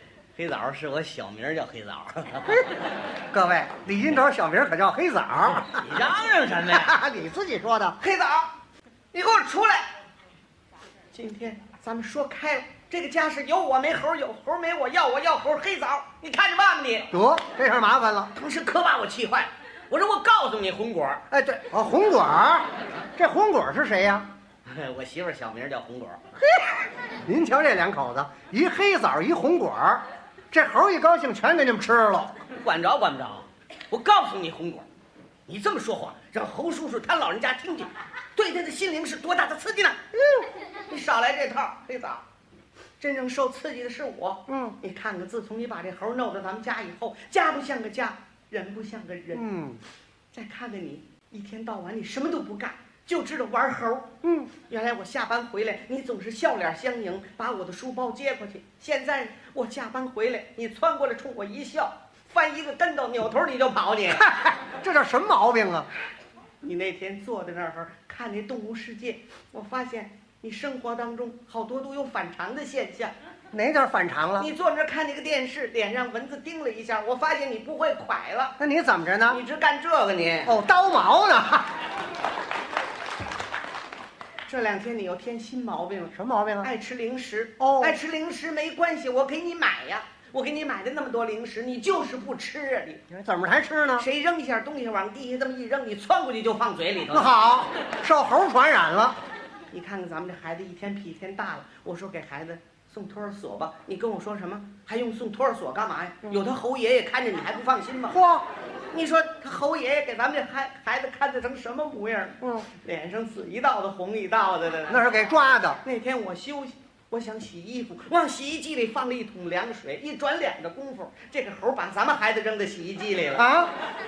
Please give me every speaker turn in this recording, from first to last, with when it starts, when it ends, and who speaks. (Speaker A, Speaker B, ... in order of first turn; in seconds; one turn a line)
Speaker A: 0.4-2.5
Speaker B: 3.3-5.8
Speaker A: 5.7-7.0
Speaker B: 6.7-8.0
Speaker A: 8.0-8.5
Speaker A: 9.1-9.9
Speaker A: 11.1-17.1
Speaker B: 17.1-18.3
Speaker A: 18.3-21.2
Speaker B: 21.3-22.6
Speaker B: 23.2-24.3
Speaker A: 24.6-26.2
Speaker B: 26.4-26.8
Speaker B: 27.3-32.3
Speaker A: 32.5-34.9
Speaker A: 35.5-40.0
Speaker B: 40.2-40.5
Speaker A: 40.9-42.2
Speaker A: 43.0-49.4
Speaker B: 44.5-44.8
Speaker B: 49.3-49.8
Speaker A: 50.3-54.1
Speaker B: 54.2-54.5
Speaker A: 54.7-64.2
Speaker B: 64.1-65.9
Speaker A: 66.6-73.1
Speaker B: 73.5-74.5
Speaker A: 74.4-78.6
Speaker B: 78.6-79.4
Speaker A: 79.3-80.5
Speaker B: 80.5-81.7
Speaker A: 84.5-93.0
Speaker B: 86.1-86.7
Speaker B: 87.6-88.0
Speaker B: 93.1-94.1
Speaker A: 94.0-97.3
Speaker B: 97.1-99.2
Speaker A: 99.7-108.2
Speaker B: 108.1-108.5
Speaker A: 108.9-115.0
Speaker B: 114.9-115.8
Speaker A: 115.8-123.5
Speaker B: 123.3-123.7